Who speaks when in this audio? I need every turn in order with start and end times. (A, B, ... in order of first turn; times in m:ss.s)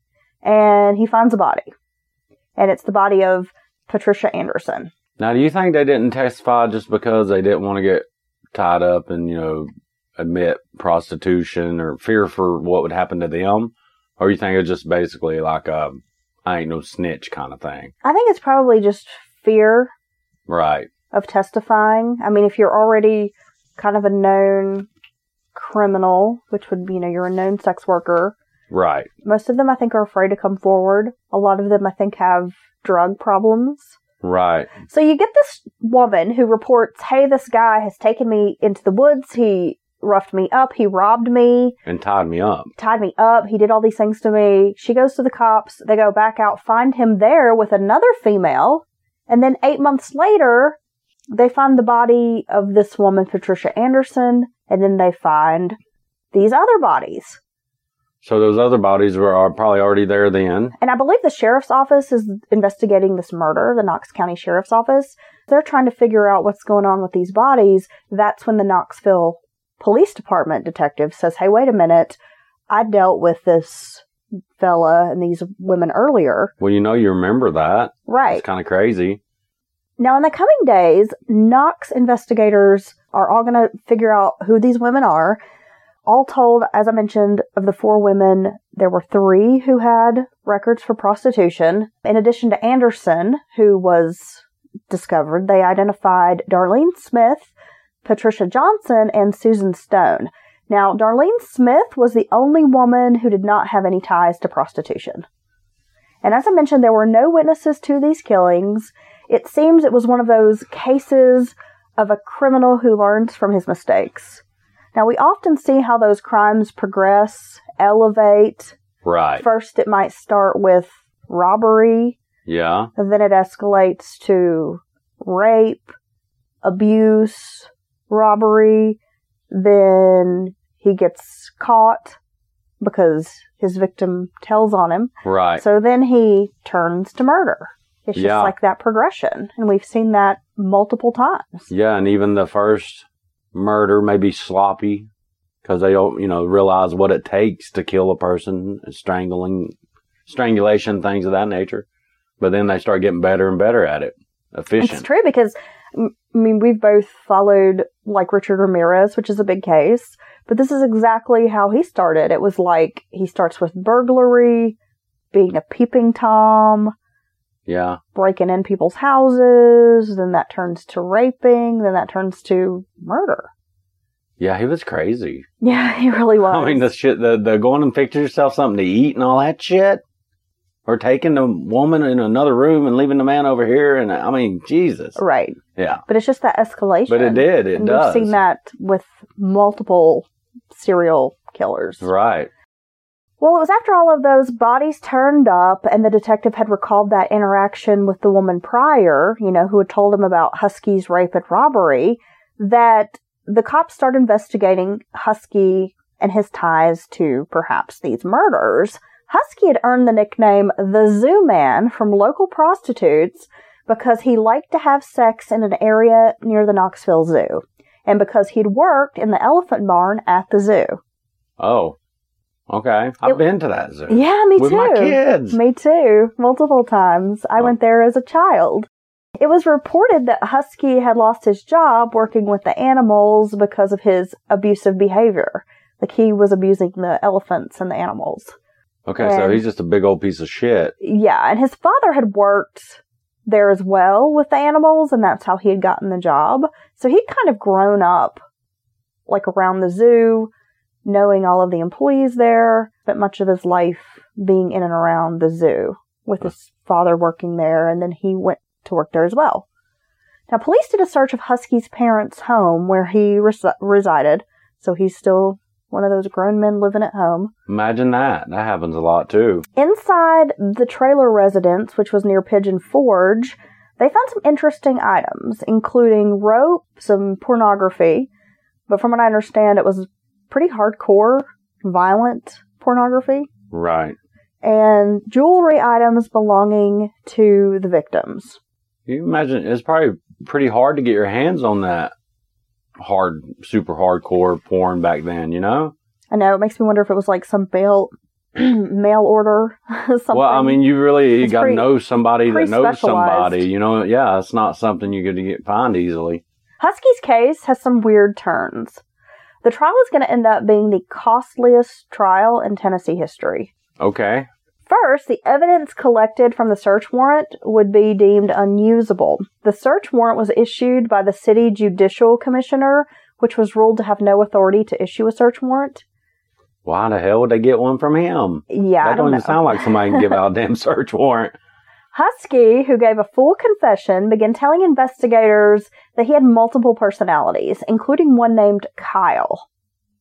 0:00.4-0:01.7 A
0:02.6-0:04.9 A
0:05.2-0:17.9 B
0:18.0-0:19.9 A
0:20.5-0:20.9 B
0:21.1-0:24.9 A
0:25.5-0:28.4 A
0:28.7-0:29.1 B
0:29.2-0:34.0 A
0:34.2-0:34.8 B
0:34.8-0:41.8 A
0:41.9-0:42.7 B
0:42.8-0:50.8 A
0:51.3-0:55.8 A
0:56.3-0:57.4 A
0:58.2-1:00.7 B
1:00.8-1:12.2 A
1:12.7-1:14.1 A
1:14.6-1:16.5 A
1:16.6-1:19.2 B
1:18.1-1:18.4 A
1:20.0-1:25.4 A
1:26.1-1:37.5 A
1:38.0-1:45.3 A
1:46.2-1:58.8 A
1:59.0-1:59.4 B
1:59.4-2:02.2 A
2:02.5-2:02.9 B
2:03.0-2:05.9 A
2:06.6-2:09.0 A
2:09.5-2:12.2 A
2:12.8-2:21.7 A
2:15.2-2:15.6 B
2:18.2-2:18.5 B
2:21.7-2:25.1 B
2:25.6-2:29.8 B
2:30.3-2:31.8 B
2:32.4-2:35.1 B
2:34.8-2:44.8 A
2:45.3-2:46.9 A
2:47.7-2:48.0 B
2:48.2-2:53.5 A
2:54.4-2:55.5 B
2:55.6-2:56.9 A
2:56.4-3:00.0 B
3:00.9-3:05.2 B
3:05.2-3:12.1 A
3:05.8-3:06.0 B
3:07.1-3:08.4 B
3:12.0-3:12.5 B
3:13.4-3:41.0 A
3:41.6-3:42.0 B
3:42.7-3:45.6 B
3:44.1-3:58.6 A
3:59.1-4:00.9 B
3:59.2-3:59.6 A
4:01.0-4:08.4 A
4:09.3-4:10.5 A
4:11.0-4:19.6 A
4:20.5-4:27.5 A
4:27.7-4:29.6 B
4:29.8-4:38.3 A
4:38.9-4:43.5 A
4:43.7-4:44.2 B
4:44.6-4:48.6 A
4:49.1-4:52.1 B
4:53.0-4:55.9 B
4:56.3-5:00.8 A
5:00.3-5:06.4 B
5:01.4-5:01.9 A
5:02.4-5:03.7 A
5:06.8-5:09.0 A
5:09.6-5:13.7 A
5:14.0-5:14.5 B
5:14.9-5:26.0 A
5:26.8-5:31.6 B
5:28.7-5:30.4 A
5:32.1-5:39.6 A